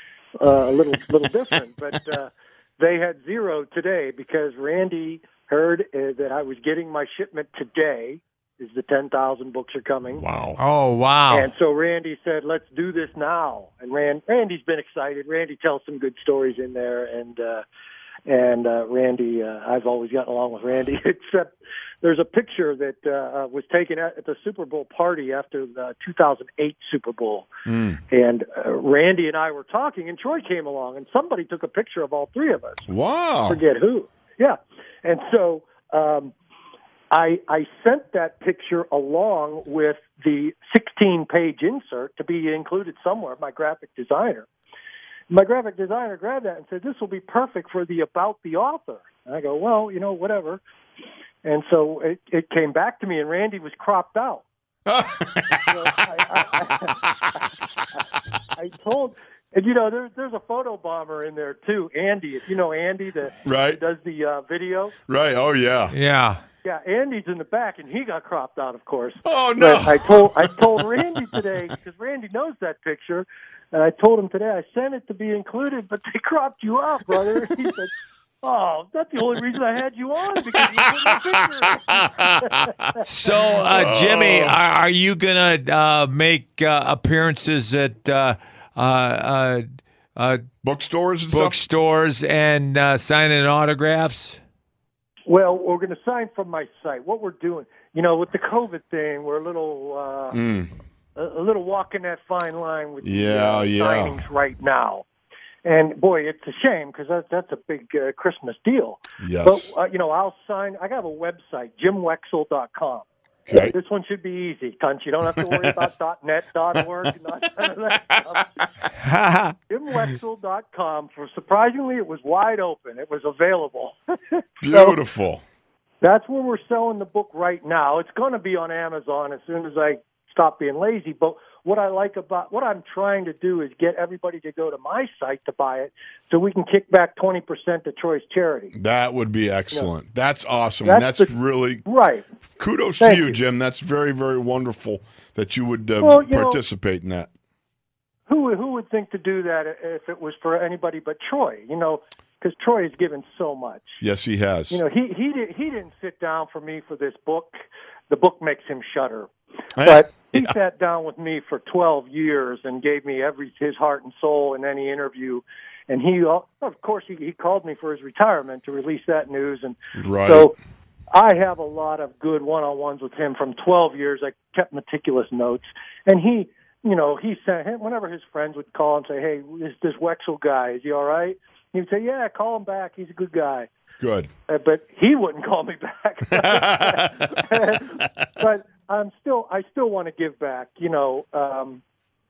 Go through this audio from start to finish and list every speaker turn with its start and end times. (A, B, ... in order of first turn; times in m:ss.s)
0:00.4-0:10.2 A
0:10.1-0:10.6 B
0:10.6-0:11.5 C
0:11.3-0:17.6 A
0:18.3-0:27.5 A
0:27.6-0:28.0 B
0:28.1-0:32.9 A
0:32.9-0:33.6 B
0:33.5-0:36.3 A
0:37.1-0:44.5 A
0:45.3-0:50.6 A
0:51.4-0:54.4 A
0:54.9-0:57.3 B
0:55.6-0:57.0 A
0:58.6-1:04.9 A
1:03.4-1:03.8 B
1:05.1-1:05.9 B
1:05.9-1:06.4 C
1:06.6-1:17.9 A
1:09.2-1:10.5 B
1:18.4-1:22.7 A
1:20.6-1:22.9 B
1:23.0-1:30.4 C
1:23.5-1:24.6 B
1:30.6-1:31.6 B
1:31.3-1:34.4 C
1:35.3-1:40.4 A
1:40.3-1:40.7 B
1:41.2-1:45.0 A
1:43.0-1:44.2 B
1:45.6-1:58.5 A
1:49.2-1:49.7 B
1:53.5-1:53.7 B
1:59.0-1:59.5 C
1:59.7-2:05.0 A
2:04.6-2:05.4 B
2:06.0-2:18.7 A
2:18.7-2:21.8 B
2:20.8-2:21.3 A
2:21.8-2:22.2 A
2:22.6-2:27.3 B
2:23.0-2:23.4 A
2:26.0-2:26.6 A
2:28.3-2:34.0 A
2:34.0-2:34.8 B
2:34.7-2:37.6 A
2:38.1-2:50.5 A
2:39.8-2:40.5 B
2:50.0-2:50.5 B
2:51.1-3:03.7 A
3:04.0-3:04.3 B
3:04.5-3:11.8 A
3:06.4-3:07.4 B